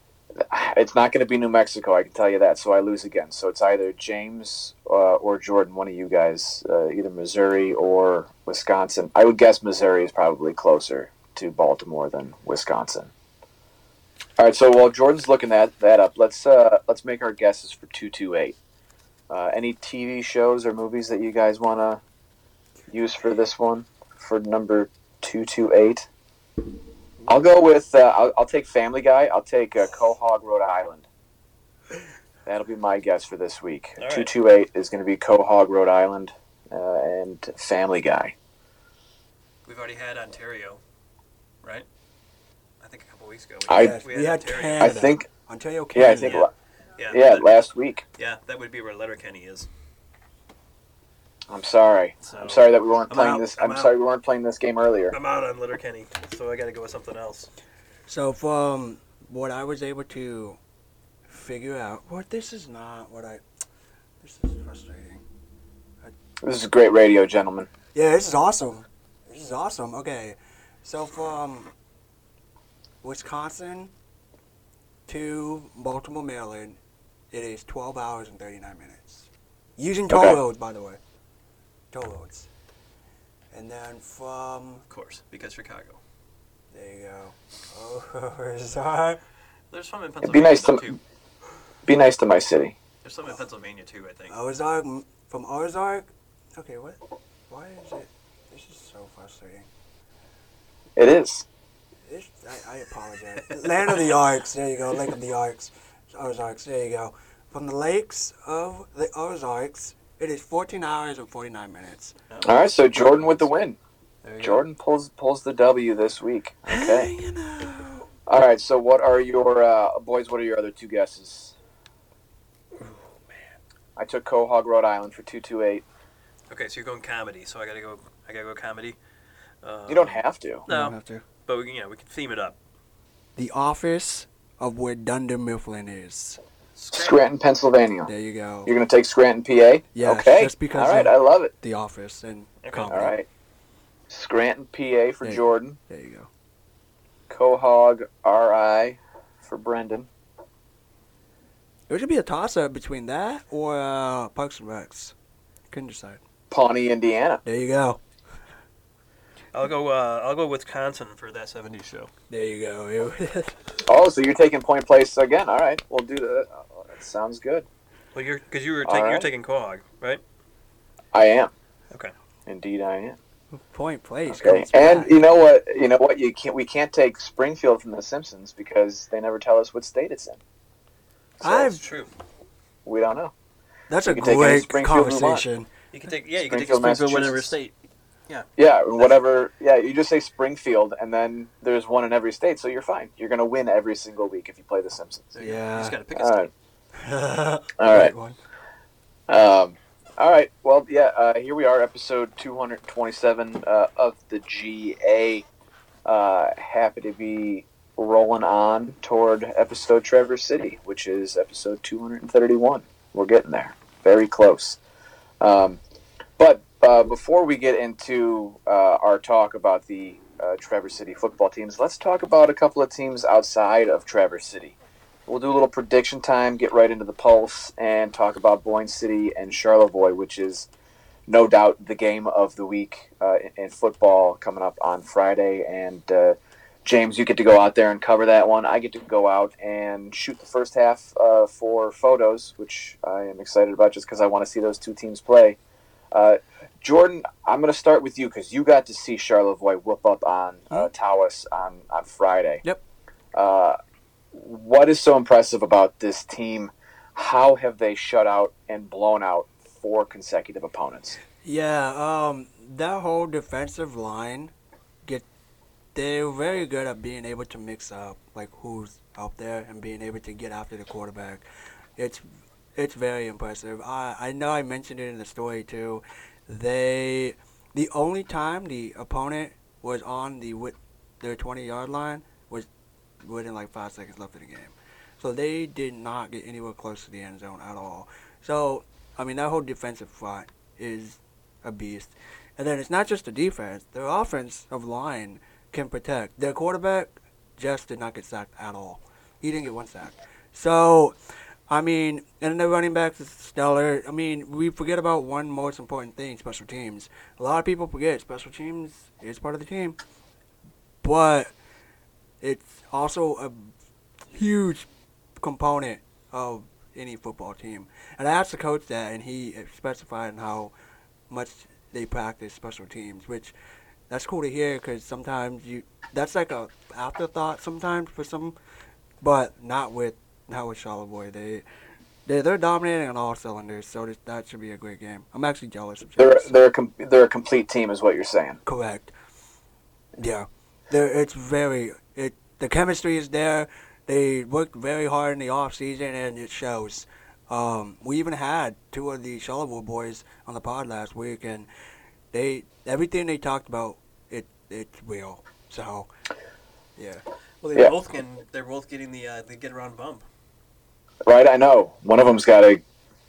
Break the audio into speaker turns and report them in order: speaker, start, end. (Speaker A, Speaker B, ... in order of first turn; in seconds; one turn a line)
Speaker A: 0.4-13.1
Speaker A: 14.4-18.6
Speaker A: 19.3-22.0
Speaker A: 22.9-26.1
Speaker A: 27.3-31.1
Speaker A: 32.5-38.4
Speaker B: 34.0-34.3
Speaker B: 39.7-40.8
Speaker B: 42.8-45.0
Speaker A: 43.7-44.0
Speaker C: 43.7-46.4
Speaker A: 44.8-45.3
Speaker A: 45.9-46.5
Speaker B: 46.2-47.5
Speaker A: 47.1-48.0
Speaker B: 48.2-49.7
Speaker A: 51.5-55.2
Speaker B: 52.2-53.9
Speaker B: 55.1-57.5
Speaker C: 58.1-60.6
Speaker C: 61.3-63.4
Speaker C: 64.2-65.2
Speaker A: 66.4-67.7
Speaker C: 68.0-71.7
Speaker C: 73.0-73.9
Speaker C: 75.1-76.8
Speaker C: 77.3-81.0
Speaker A: 80.1-80.4
Speaker C: 81.9-82.5
Speaker C: 83.5-84.8
Speaker B: 84.9-86.0
Speaker C: 86.7-89.2
Speaker B: 89.7-91.0
Speaker A: 90.2-91.0
Speaker A: 91.9-92.8
Speaker B: 93.0-94.3
Speaker C: 94.3-99.7
Speaker A: 101.0-101.5
Speaker C: 102.1-112.2
Speaker B: 112.3-113.5
Speaker A: 112.4-113.8
Speaker B: 114.2-114.6
Speaker A: 114.4-117.1
Speaker C: 116.7-118.1
Speaker A: 118.3-121.6
Speaker A: 124.0-125.8
Speaker B: 126.5-129.0
Speaker B: 129.6-130.9
Speaker A: 129.9-130.7
Speaker C: 130.7-131.2
Speaker B: 131.5-132.6
Speaker C: 133.4-136.4
Speaker B: 136.8-137.2
Speaker A: 136.9-138.1
Speaker C: 138.1-138.7
Speaker A: 138.7-141.5
Speaker C: 139.9-143.2
Speaker B: 142.6-142.9
Speaker A: 142.9-143.3
Speaker A: 144.1-145.8
Speaker C: 145.2-146.3
Speaker A: 147.3-150.1
Speaker C: 151.9-155.2
Speaker C: 155.7-156.2
Speaker A: 156.5-157.4
Speaker C: 157.4-158.0
Speaker B: 159.5-162.1
Speaker C: 162.3-163.6
Speaker A: 163.9-167.7
Speaker B: 168.1-170.2
Speaker A: 168.8-169.3
Speaker A: 171.1-171.5
Speaker A: 172.5-173.2
Speaker C: 173.5-175.2
Speaker A: 174.3-180.4
Speaker A: 181.4-181.7
Speaker C: 181.4-181.8
Speaker B: 181.7-182.1
Speaker A: 182.8-183.3
Speaker C: 183.9-185.7
Speaker A: 184.1-185.5
Speaker B: 185.9-187.7
Speaker A: 186.4-187.6
Speaker B: 188.3-189.2
Speaker A: 188.6-195.4
Speaker B: 195.3-196.5
Speaker C: 195.4-196.0
Speaker A: 196.1-196.5
Speaker C: 197.0-198.4
Speaker A: 197.8-198.1
Speaker A: 199.3-205.5
Speaker A: 206.1-214.8
Speaker A: 215.4-215.8
Speaker A: 216.4-224.8
Speaker A: 225.3-230.7
Speaker A: 231.3-245.6
Speaker A: 246.1-252.6
Speaker A: 253.3-253.8
Speaker A: 254.3-261.2
Speaker C: 261.4-264.5
Speaker C: 265.9-271.5
Speaker C: 272.0-282.7
Speaker C: 283.2-301.2
Speaker C: 301.7-310.0
Speaker C: 311.0-311.5
Speaker C: 312.4-313.7
Speaker C: 314.3-314.9
Speaker C: 315.4-320.7
Speaker C: 321.3-323.5
Speaker C: 324.1-328.6
Speaker C: 329.2-331.6
Speaker C: 332.3-336.6
Speaker A: 336.2-338.6
Speaker C: 338.6-339.1
Speaker C: 340.2-351.7
Speaker C: 352.3-356.1
Speaker C: 357.0-357.2
Speaker B: 357.6-360.2
Speaker A: 361.2-362.8